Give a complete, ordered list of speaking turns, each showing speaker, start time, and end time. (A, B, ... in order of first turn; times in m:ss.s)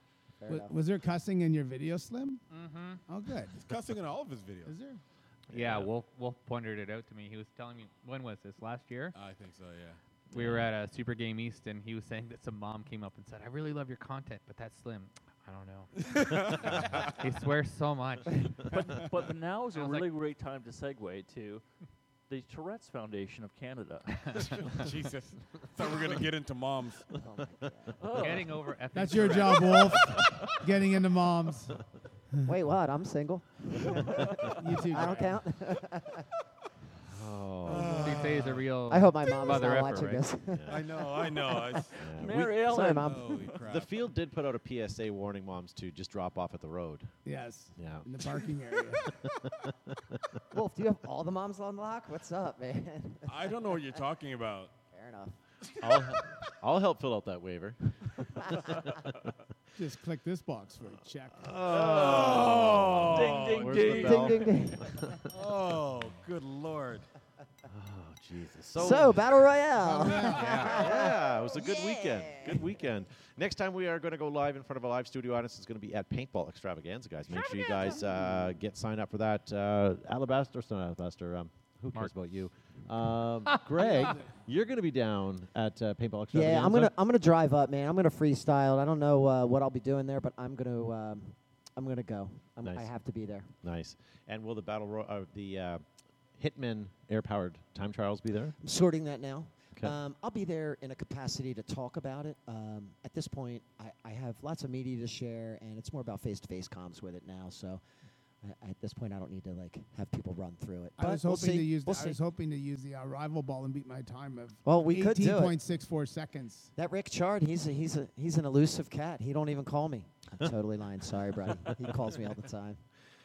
0:00.4-0:00.8 A
0:00.5-0:02.4 B
0:02.5-0:03.0 C
0:03.1-0:03.6 B
0:03.6-0:04.8 D
0:04.7-0:05.0 B
0:05.5-0:05.9 E
0:05.5-0:09.2 C
0:09.1-0:10.0 D
0:10.3-0:18.7 C
0:10.3-0:10.7 E
0:16.1-0:17.1 D
0:18.7-0:21.6 F
0:19.8-0:20.1 C
0:22.3-0:24.8 F
0:24.2-0:24.6 C
0:24.6-0:27.0 D
0:27.2-0:27.9 A
0:28.0-0:28.6 F
0:28.1-0:30.0 C
0:28.9-0:31.8 B
0:32.4-0:36.3 A
0:34.6-0:35.2 B
0:37.0-0:38.4 E
0:37.6-0:38.6 D
0:38.0-0:40.2 C
0:38.9-0:43.5 A
0:40.5-0:40.8 E
0:40.7-0:44.0 D
0:42.0-0:42.4 E
0:42.2-0:43.2 F
0:43.6-0:47.1 E
0:47.2-0:49.0 B
0:47.8-0:48.4 E
0:49.1-0:50.4 E
0:50.5-0:54.0 A
0:53.3-0:54.8 D
0:54.9-0:55.4 A
0:55.7-0:56.0 D
0:55.8-0:59.3 E
0:59.8-1:01.7 B
1:01.4-1:05.3 E
1:01.6-1:04.2 D
1:01.8-1:04.5 F
1:03.8-1:05.0 A
1:05.3-1:07.1 D
1:07.7-1:09.3 E
1:08.8-1:12.6 A
1:09.8-1:10.6 B
1:10.2-1:10.8 D
1:10.2-1:26.9 E
1:23.5-1:24.1 C
1:26.3-1:33.5 A
1:32.6-1:32.9 E
1:33.6-1:35.8 E
1:36.4-1:38.6 E
1:38.6-1:47.8 A
1:48.4-1:52.2 A
1:51.0-1:56.7 B
1:54.6-1:55.6 A
1:56.8-2:02.8 A